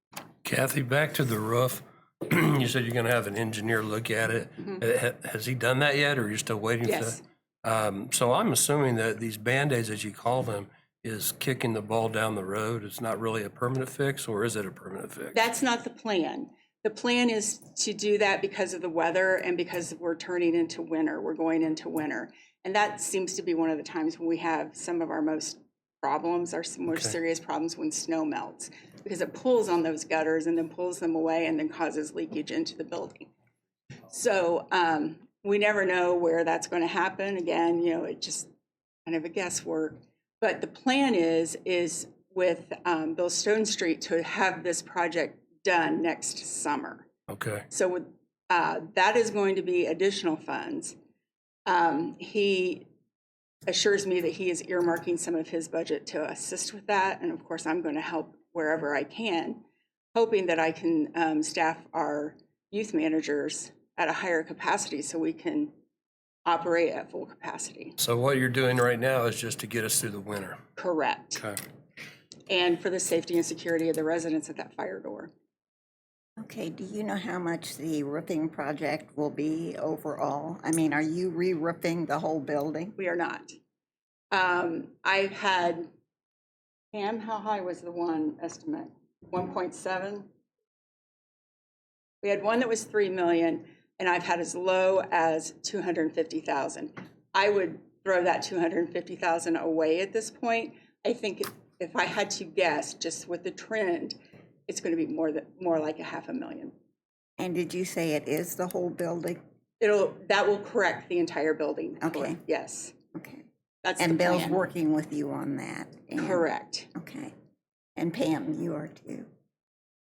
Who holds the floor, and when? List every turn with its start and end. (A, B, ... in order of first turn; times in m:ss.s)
0:00.4-0:15.4 A
0:06.8-0:07.2 B
0:15.3-0:33.3 B
0:34.1-0:38.5 B
0:39.1-0:47.1 B
0:47.3-0:47.6 A
0:47.7-0:51.0 B
0:51.7-0:52.9 B
0:53.7-0:59.6 B
1:00.1-1:05.7 B
1:06.4-1:08.0 B
1:08.0-1:10.6 A
1:10.8-1:11.4 B
1:12.5-1:15.3 B
1:16.4-1:23.0 C
1:23.0-1:23.5 B
1:24.3-1:25.9 B
1:26.9-1:30.3 B
1:32.2-1:44.2 B
1:44.7-1:46.7 B
1:47.4-1:49.4 C
1:49.8-1:52.9 B
1:52.0-1:52.4 C
1:53.1-1:53.5 C
1:53.8-1:54.6 B
1:54.0-1:57.3 C
1:56.2-1:56.9 B
1:58.0-1:59.3 C